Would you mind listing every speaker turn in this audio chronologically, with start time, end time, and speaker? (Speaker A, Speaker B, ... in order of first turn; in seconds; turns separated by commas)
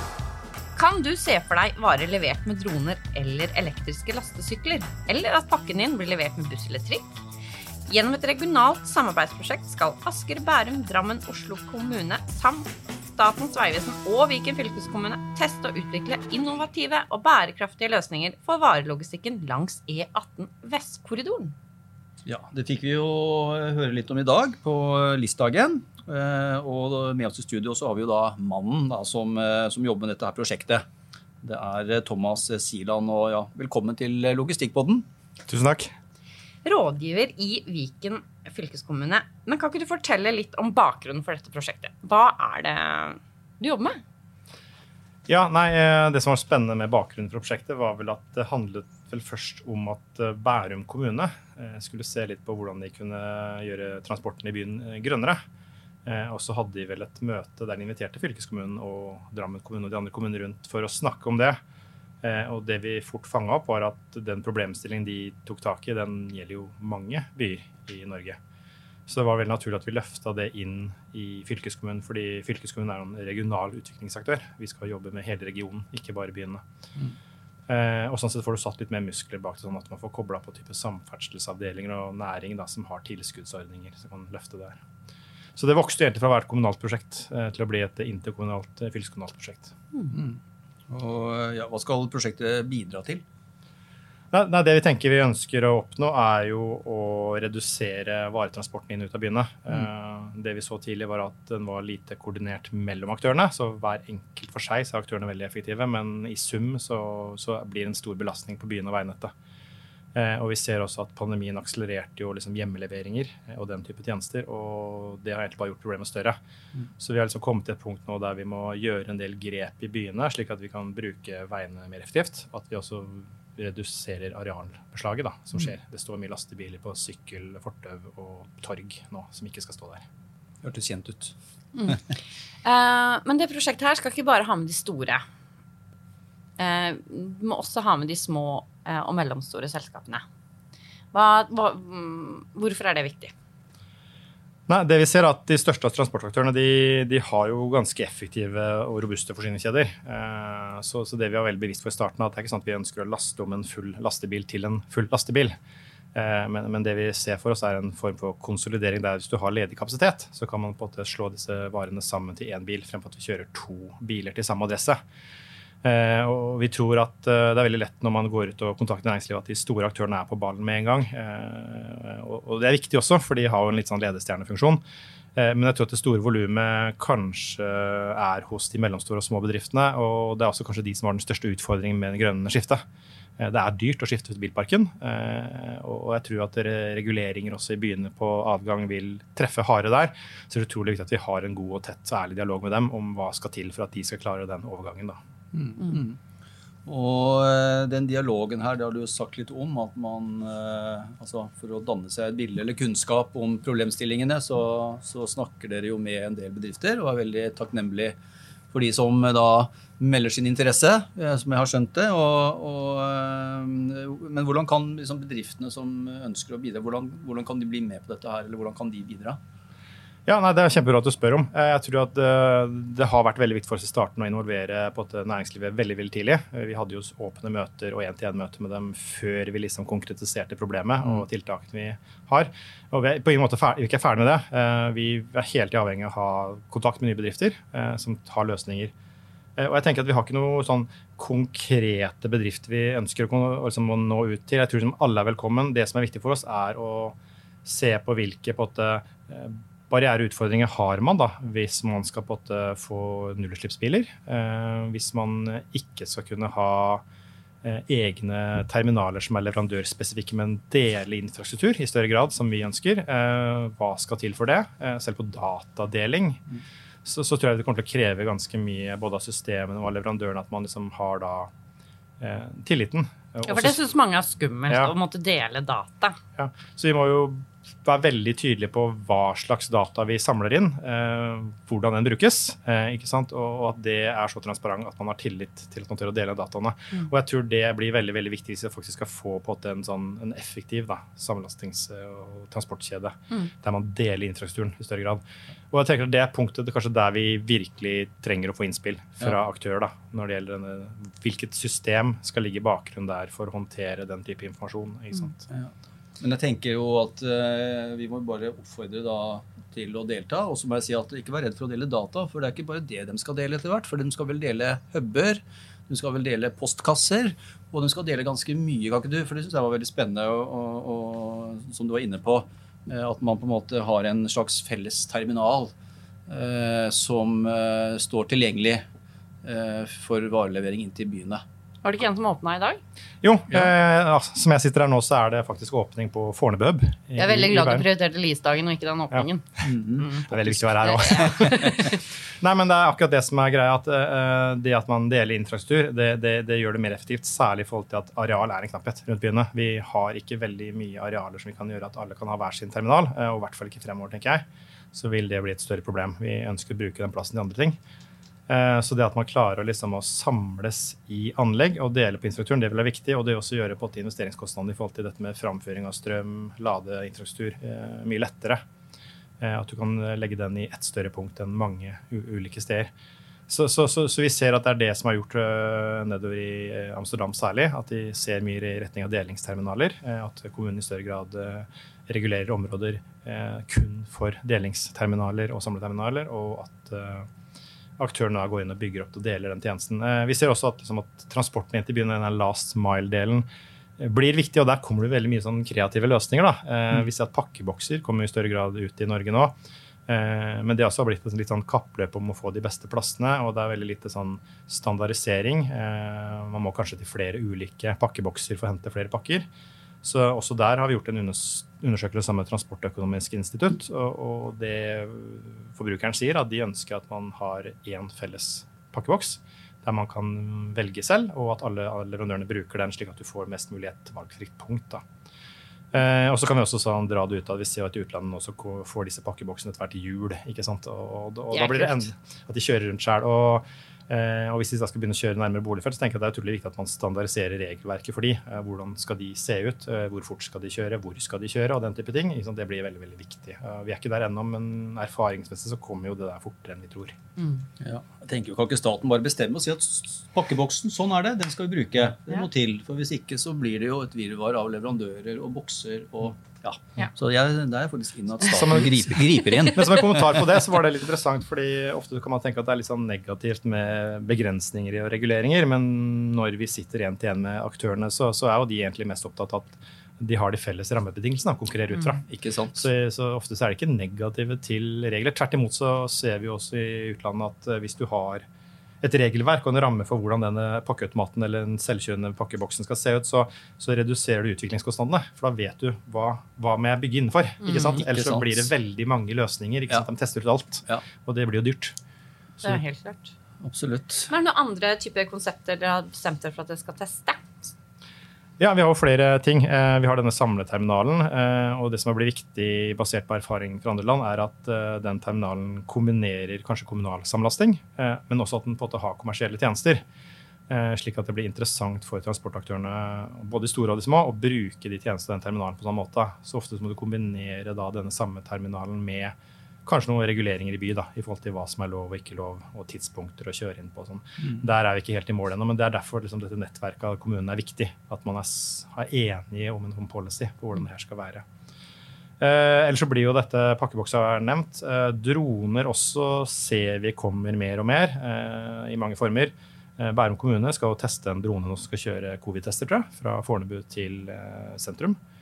Speaker A: 0.7-7.2, Speaker A: 7.9-21.5, Speaker B: 22.2-30.8, Speaker B: 31.4-35.0, Speaker C: 35.5-35.9, Speaker A: 36.6-44.0, Speaker C: 45.3-55.4, Speaker C: 56.0-61.6, Speaker C: 62.2-68.4, Speaker C: 69.1-76.6, Speaker C: 77.7-84.8, Speaker C: 85.5-89.7, Speaker B: 90.1-93.2, Speaker C: 94.3-109.3, Speaker C: 110.1-116.4, Speaker C: 117.0-130.1, Speaker B: 130.6-131.3, Speaker A: 131.7-132.0, Speaker A: 132.6-135.2, Speaker A: 136.6-140.2, Speaker A: 141.1-143.3, Speaker C: 144.7-155.5, Speaker C: 156.1-165.0, Speaker C: 165.8-174.8, Speaker C: 175.3-182.8, Speaker C: 183.4-195.2, Speaker B: 195.5-196.2, Speaker B: 196.8-208.2, Speaker B: 208.7-219.4, Speaker C: 220.2-238.9, Speaker C: 239.6-257.0, Speaker C: 257.6-266.4, Speaker C: 267.0-271.5, Speaker C: 272.2-273.8, Speaker A: 273.4-276.2, Speaker C: 274.7-274.9, Speaker C: 276.4-305.5, Speaker B: 305.5-325.7, Speaker B: 326.3-328.8, Speaker B: 329.4-331.4, Speaker A: 331.8-332.8, Speaker C: 333.2-337.9, Speaker A: 337.1-342.0, Speaker B: 339.6-340.0, Speaker C: 340.2-357.8, Speaker C: 358.5-368.6, Speaker C: 369.4-372.9, Speaker C: 373.5-387.3, Speaker C: 388.0-393.5, Speaker C: 394.0-399.5, Speaker C: 400.1-409.5, Speaker C: 410.0-425.0, Speaker C: 425.9-447.2, Speaker A: 431.5-432.1, Speaker B: 447.8-460.3, Speaker C: 458.6-478.4, Speaker B: 472.2-472.9, Speaker C: 479.0-491.9, Speaker A: 487.6-488.0, Speaker B: 487.9-488.7, Speaker A: 492.6-493.3, Speaker B: 493.6-494.3, Speaker A: 494.3-497.7, Speaker C: 498.6-510.0, Speaker C: 510.7-531.4, Speaker C: 532.4-545.2